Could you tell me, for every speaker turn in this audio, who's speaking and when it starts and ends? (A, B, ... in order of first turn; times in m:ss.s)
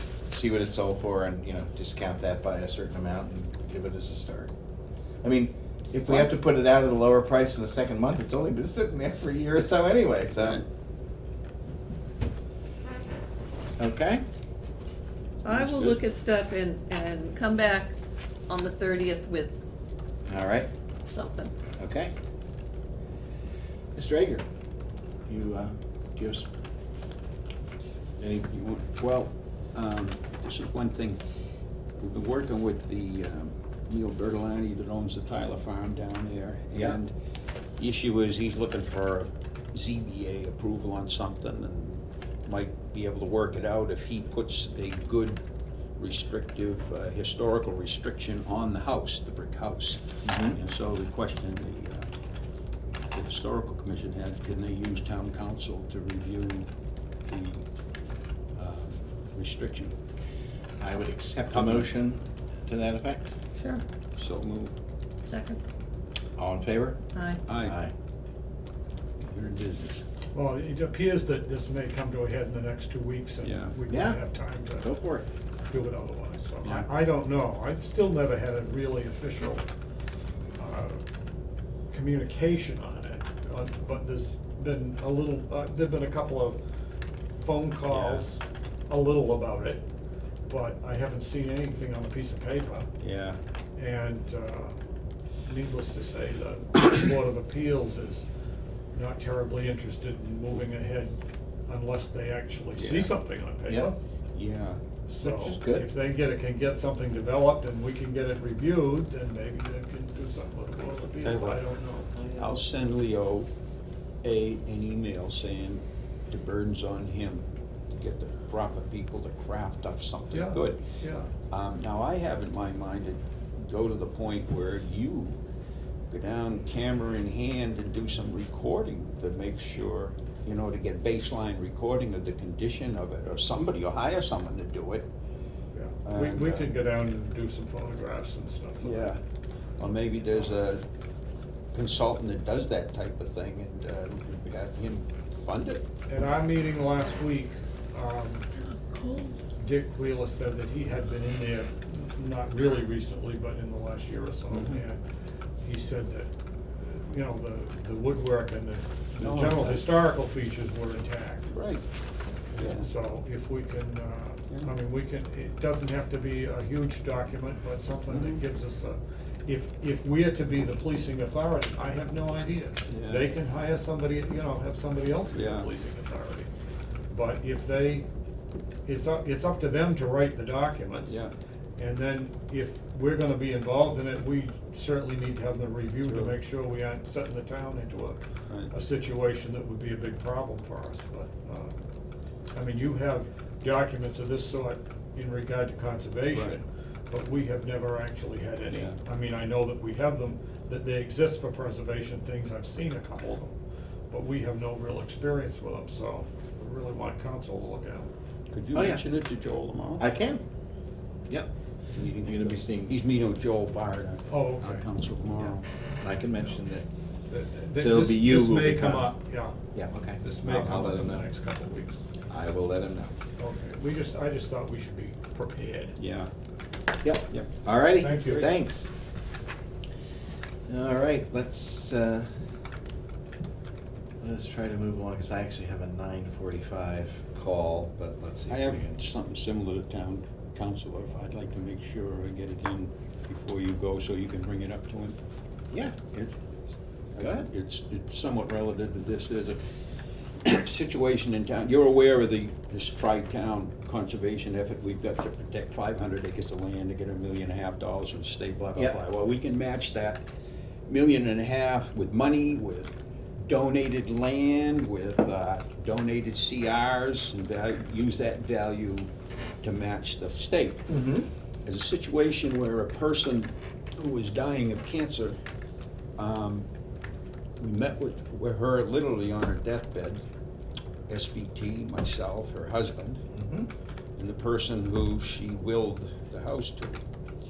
0:00.3-0:04.5 A
0:05.2-0:10.6 A
0:06.0-0:06.3 B
0:13.8-0:14.2 A
0:15.4-0:18.0 C
0:15.5-0:16.0 B
0:18.5-0:19.6 C
0:20.3-0:20.7 A
0:21.1-0:21.5 C
0:21.8-0:22.1 A
0:24.0-0:24.4 A
0:25.3-0:26.5 A
0:28.2-0:28.5 A
0:28.5-0:31.2 B
0:32.0-0:37.1 B
0:37.8-0:45.4 B
0:46.0-0:52.1 B
0:50.2-0:50.6 A
0:53.1-0:56.7 B
0:57.3-0:57.6 B
0:58.6-0:59.9 B
1:00.8-1:03.3 A
1:01.5-1:01.9 B
1:03.6-1:03.8 C
1:04.2-1:04.7 B
1:05.2-1:05.6 C
1:06.4-1:07.0 A
1:07.1-1:07.4 C
1:07.4-1:07.8 B
1:07.5-1:07.9 A
1:09.2-1:10.0 B
1:10.3-1:15.0 D
1:13.4-1:13.8 B
1:13.9-1:14.2 A
1:14.8-1:15.2 A
1:15.7-1:19.6 D
1:20.6-1:21.0 D
1:21.9-1:26.6 D
1:27.4-1:29.8 D
1:27.9-1:28.2 B
1:30.5-1:32.9 D
1:33.0-1:33.4 B
1:33.8-1:34.8 D
1:35.5-1:38.3 D
1:38.9-1:41.1 D
1:41.7-1:43.9 D
1:42.7-1:43.2 B
1:43.7-1:43.9 A
1:44.3-1:44.8 B
1:45.1-1:52.5 D
1:45.2-1:45.9 A
1:51.2-1:51.6 B
1:52.3-1:53.5 B
1:54.2-2:00.8 B
2:00.3-2:01.3 D
2:01.5-2:05.4 B
2:06.1-2:15.1 B
2:15.8-2:19.2 D
2:16.0-2:16.7 B
2:18.8-2:19.2 B
2:19.8-2:20.8 B
2:21.7-2:25.9 B
2:26.1-2:28.5 D
2:28.6-2:29.5 C
2:29.6-2:35.0 D
2:34.5-2:34.8 B
2:35.6-2:41.5 D
2:39.2-2:39.8 B
2:41.5-2:41.9 B
2:42.6-2:56.5 D
2:42.6-2:42.9 B
2:48.1-2:48.4 B
2:52.9-2:53.3 B
2:55.3-2:55.7 B
2:57.1-2:58.1 D
2:58.9-3:01.3 D
3:01.1-3:01.3 B
3:01.8-3:11.8 D
3:06.0-3:06.3 B
3:12.5-3:23.6 D
3:16.3-3:16.6 B
3:18.7-3:19.0 B
3:24.1-3:28.1 D
3:28.5-3:30.1 B
3:28.7-3:29.0 A
3:30.0-3:30.4 A
3:31.9-3:35.6 B
3:32.2-3:33.0 A
3:34.3-3:34.8 D
3:36.0-3:36.8 A
3:37.3-3:39.6 D
3:37.8-3:39.1 A
3:39.7-3:41.2 A
3:40.2-3:42.0 D
3:42.3-3:43.1 A
3:43.4-3:46.0 D
3:46.0-3:46.3 B
3:47.0-3:48.9 A
3:48.0-3:48.6 D
3:50.7-3:52.3 A
3:54.2-3:59.0 A
3:58.5-4:05.2 B
4:05.7-4:06.0 A
4:07.2-4:09.6 B
4:07.2-4:07.5 A
4:10.4-4:20.2 B
4:20.9-4:29.1 B
4:29.6-4:30.9 B
4:30.9-4:31.3 A
4:31.6-4:35.4 B
4:36.2-4:36.7 B
4:37.6-4:40.2 B
4:41.1-4:43.2 B
4:43.3-4:43.7 A
4:44.2-4:47.0 B